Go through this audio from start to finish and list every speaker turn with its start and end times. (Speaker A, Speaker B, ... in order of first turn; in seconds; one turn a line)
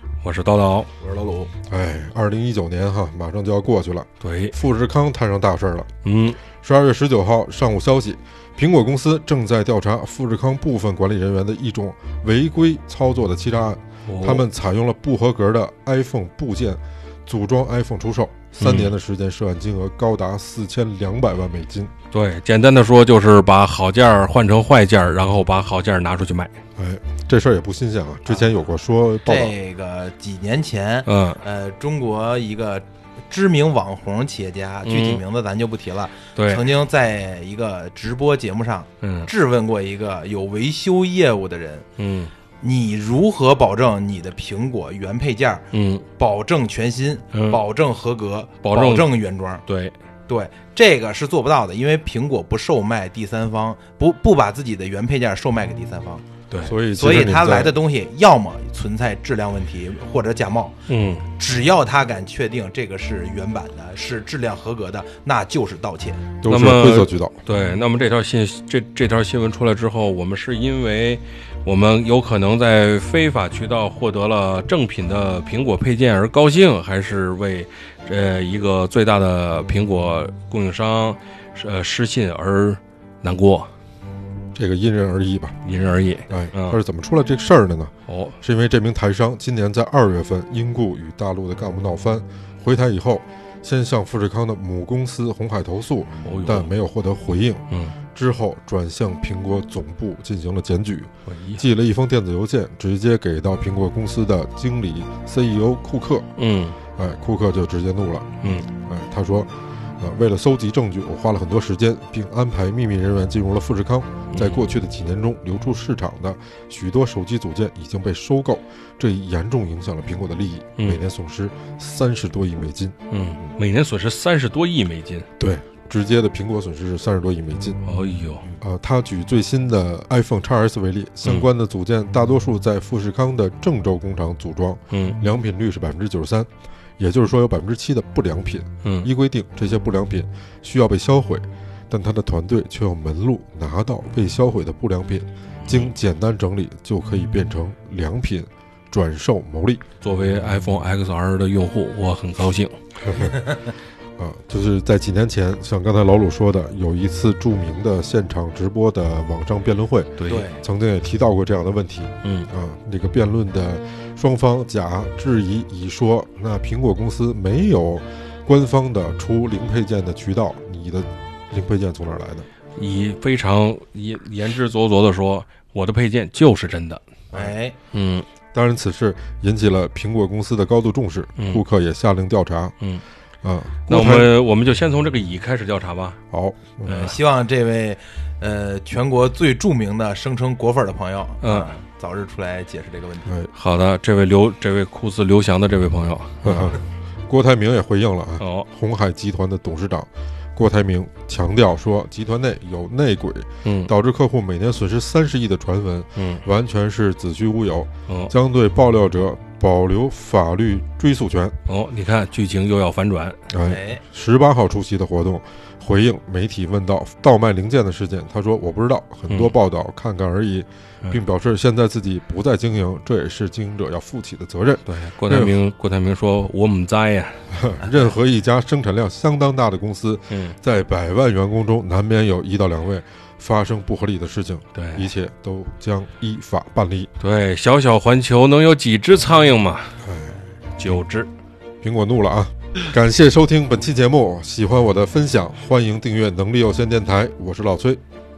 Speaker A: 0.2-0.9
Speaker B: 1.0-1.5
Speaker C: 1.7-5.9
Speaker A: 4.2-4.5
Speaker A: 6.0-6.4
Speaker C: 6.6-21.9
Speaker A: 14.1-14.4
Speaker A: 18.6-18.9
Speaker A: 22.1-26.5
Speaker C: 26.8-29.5
Speaker B: 29.2-41.9
Speaker A: 31.1-31.4
Speaker A: 34.8-35.2
Speaker A: 36.4-36.6
Speaker A: 39.0-39.3
Speaker A: 42.0-42.3
Speaker B: 42.6-45.6
Speaker A: 45.7-46.0
Speaker B: 46.2-49.6
Speaker A: 47.3-47.6
Speaker A: 48.6-49.1
Speaker A: 49.7-49.9
Speaker B: 50.3-56.2
Speaker C: 56.6-57.7
Speaker B: 56.9-60.8
Speaker A: 60.9-61.2
Speaker B: 61.3-66.2
Speaker C: 66.4-67.4
Speaker A: 66.5-83.7
Speaker C: 84.5-85.6
Speaker A: 85.6-86.8
Speaker C: 86.3-106.3
Speaker A: 88.1-88.4
Speaker A: 96.2-96.7
Speaker A: 97.7-97.9
Speaker A: 101.3-101.6
Speaker A: 106.4-106.8
Speaker C: 106.9-122.9
Speaker A: 108.4-108.7
Speaker A: 114.3-114.6
Speaker A: 123.1-125.3
Speaker C: 125.4-127.8
Speaker A: 127.8-128.4
Speaker C: 128.5-149.8
Speaker A: 134.9-135.2
Speaker A: 145.6-145.9
Speaker A: 150.0-152.8
Speaker C: 153.0-153.3
Speaker B: 153.2-153.5
Speaker C: 154.2-172.5
Speaker A: 160.2-160.5
Speaker B: 160.3-160.6
Speaker A: 162.2-162.5
Speaker A: 172.8-177.0
Speaker B: 177.3-177.8
Speaker A: 177.9-178.2
Speaker C: 178.5-182.7
Speaker A: 181.4-181.6
Speaker C: 183.4-184.3
Speaker A: 183.8-186.2
Speaker C: 186.3-187.1
Speaker A: 186.9-187.2
Speaker B: 186.9-193.3
Speaker A: 191.4-191.7
Speaker C: 193.2-193.5
Speaker A: 193.5-196.8
Speaker C: 196.4-211.6
Speaker A: 198.4-198.7
Speaker A: 203.6-203.9
Speaker A: 206.2-206.4
Speaker A: 211.7-213.4
Speaker C: 213.5-225.6
Speaker B: 213.6-214.0
Speaker A: 224.8-228.0
Speaker C: 227.5-237.1
Speaker A: 230.3-230.6
Speaker A: 234.7-235.1
Speaker A: 237.2-240.0
Speaker C: 240.0-241.0
Speaker A: 240.8-241.3
Speaker C: 241.8-248.0